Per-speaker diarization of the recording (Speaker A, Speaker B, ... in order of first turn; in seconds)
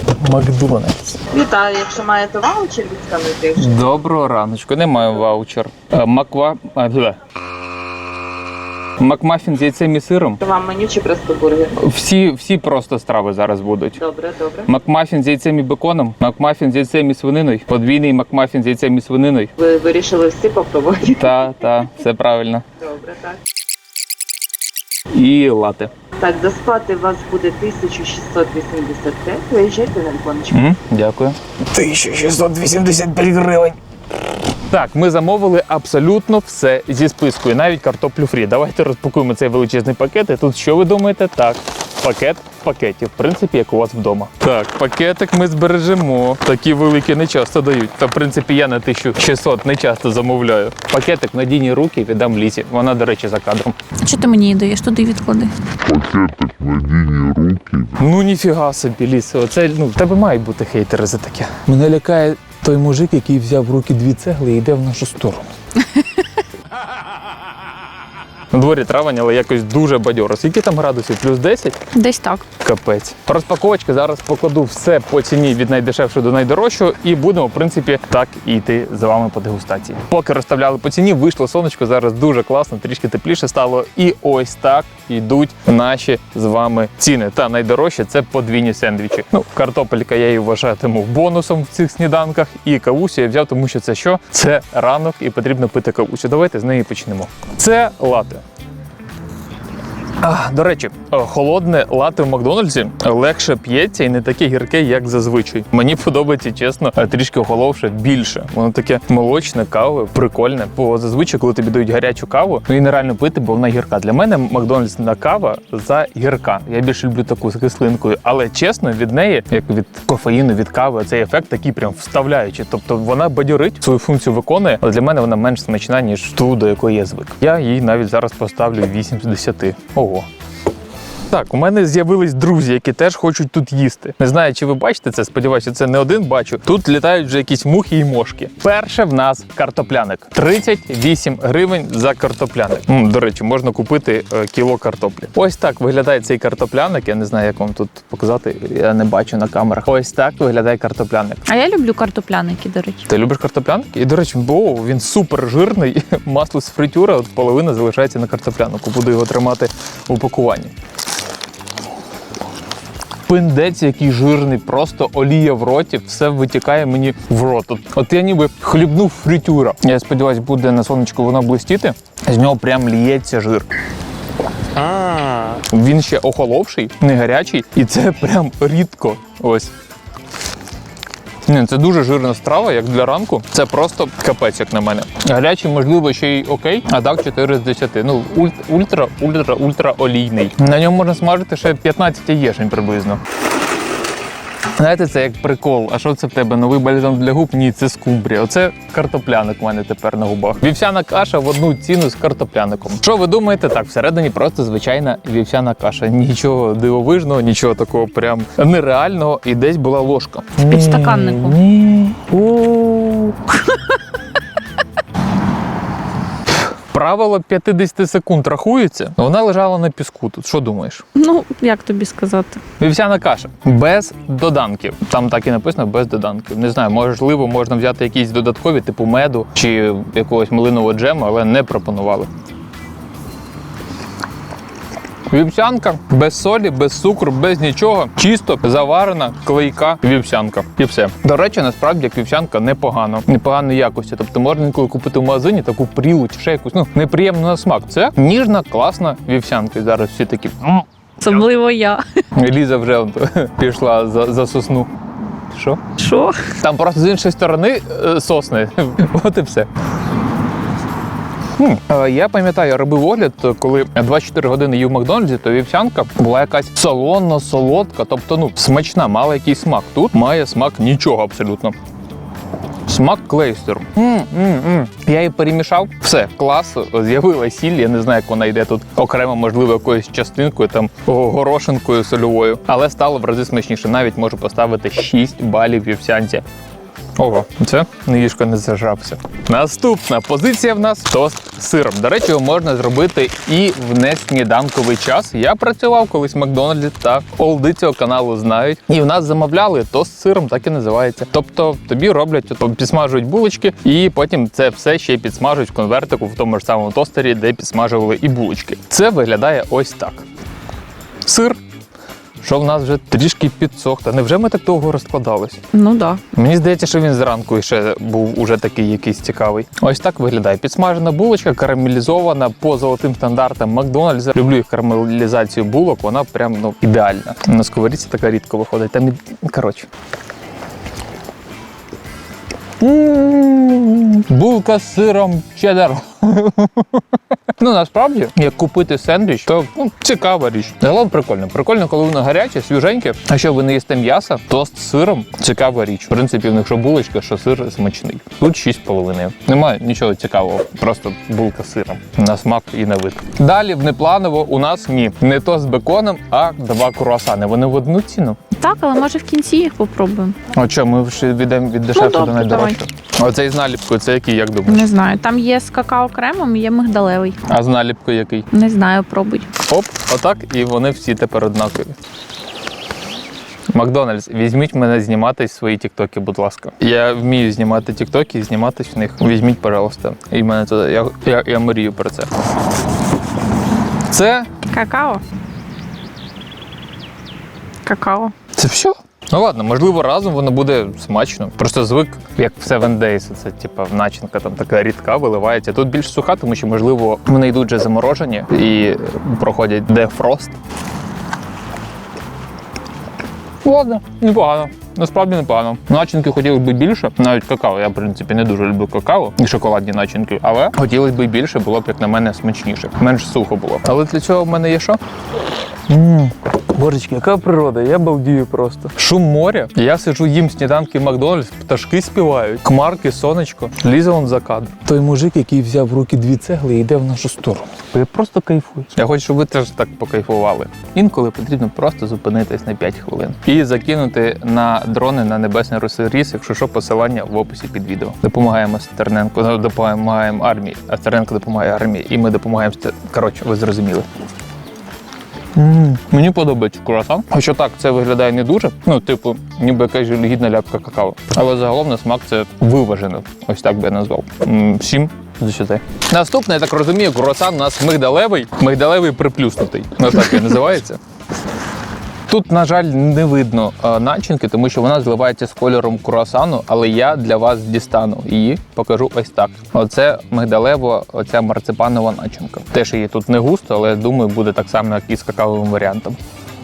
Speaker A: 0.2-1.2, 3.6-7.2, 9.0-10.4, 11.8-14.0, 14.7-19.5, 21.1-22.6, 25.1-25.9, 30.5-33.8, 34.7-53.8, 58.0-65.5, 68.5-71.8, 72.6-98.4, 100.2-130.3, 131.3-151.5, 153.1-160.7, 163.3-173.7, 175.6-179.7, 181.5-193.2, 194.8-213.4, 216.9-221.1, 222.8-232.3, 235.3-250.8, 252.3-254.9, 255.5-255.8, 256.6-259.7, 261.6-271.8, 272.9-286.4, 287.2-310.2, 311.2-311.6, 312.4-315.6, 316.3-329.9, 332.8-337.0, 337.6-358.4, 360.5-364.9, 367.5-368.5, 369.6-372.0, 373.7-382.3, 384.1-384.5, 388.6-400.6, 403.6-415.0, 415.9-444.1, 445.6-461.0, 462.3-476.2
Speaker B: 1.3-3.9, 10.4-11.8, 14.0-14.7, 19.6-21.5, 22.8-23.4, 26.2-30.6
Speaker C: 54.0-55.5, 71.9-72.5, 151.5-153.1, 210.7-211.6, 221.2-222.6, 251.2-252.0, 256.0-256.5, 315.7-316.2, 358.5-360.4, 361.9-362.8, 364.7-367.4, 368.5-369.5, 384.7-385.2, 387.9-388.3
Speaker D: 55.8-58.0